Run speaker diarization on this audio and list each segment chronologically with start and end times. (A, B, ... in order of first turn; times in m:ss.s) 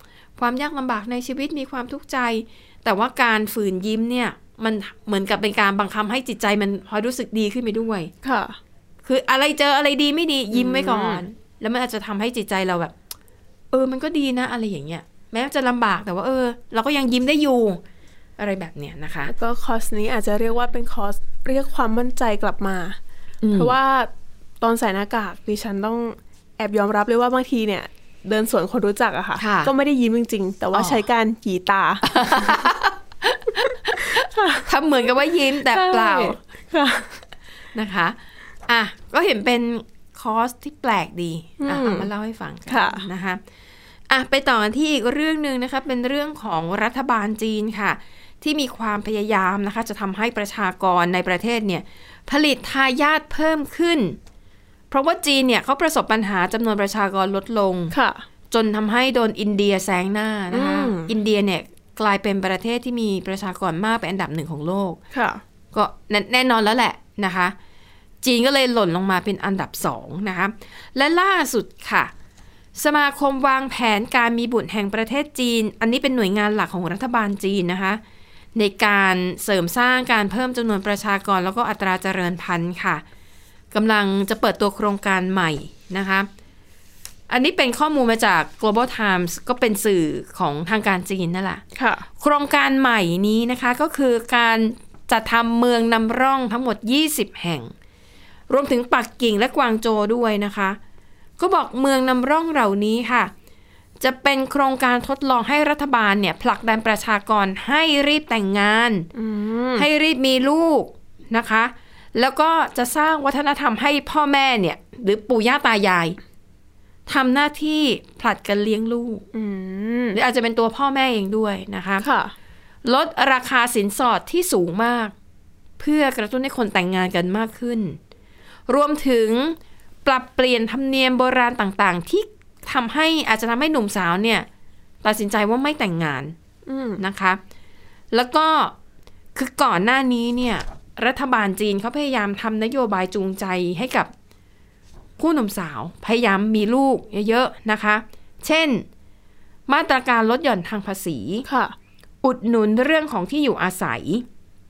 0:00.4-0:08.1 A
0:08.2-0:08.6 B
0:09.0-0:12.9 A
0:10.5-0:11.2 B
0:13.7-0:17.8 A
0:18.4-0:19.3 A
0:19.3-0:23.0 B
0:23.4-0:23.8 A
0:23.5-0:32.6 B
0:29.4-0:29.7 A
0:30.7-0:31.0 A
0:32.0-0:36.4 A
0:34.1-0:34.7 B
0:35.6-0:37.2 B
0:37.7-0:38.2 A
0:38.7-0:43.4 A
0:41.6-0:42.1 B
0:42.7-0:43.1 B
0:44.1-0:54.2 A
0:54.9-0:57.9 A
0:57.9-0:58.2 B
0:58.5-1:05.0 A
1:00.5-1:01.1 B
1:05.1-1:05.4 B
1:05.7-1:07.6 A
1:08.2-1:12.1 A
1:12.8-1:18.0 A
1:18.6-1:23.0 A
1:23.7-1:26.3 A
1:27.3-1:31.6 A
1:31.8-1:32.0 B
1:32.2-1:37.7 A
1:38.5-1:40.8 A
1:41.4-1:43.3 A
1:44.0-1:49.1 A
1:49.1-1:49.9 B
1:49.8-1:56.2 A
1:57.1-1:59.2 A
1:59.3-2:00.2 B
2:00.1-2:02.1 A
2:02.0-2:02.3 B
2:02.8-2:05.1 A
2:05.8-2:08.0 A
2:08.7-2:14.5 A
2:15.0-2:16.3 A
2:16.7-2:17.0 B
2:17.0-2:17.4 A
2:18.1-2:18.8 A
2:19.4-2:24.1 A
2:25.2-2:28.9 A
2:29.7-2:31.5 A
2:31.4-2:31.8 B
2:32.2-2:34.2 A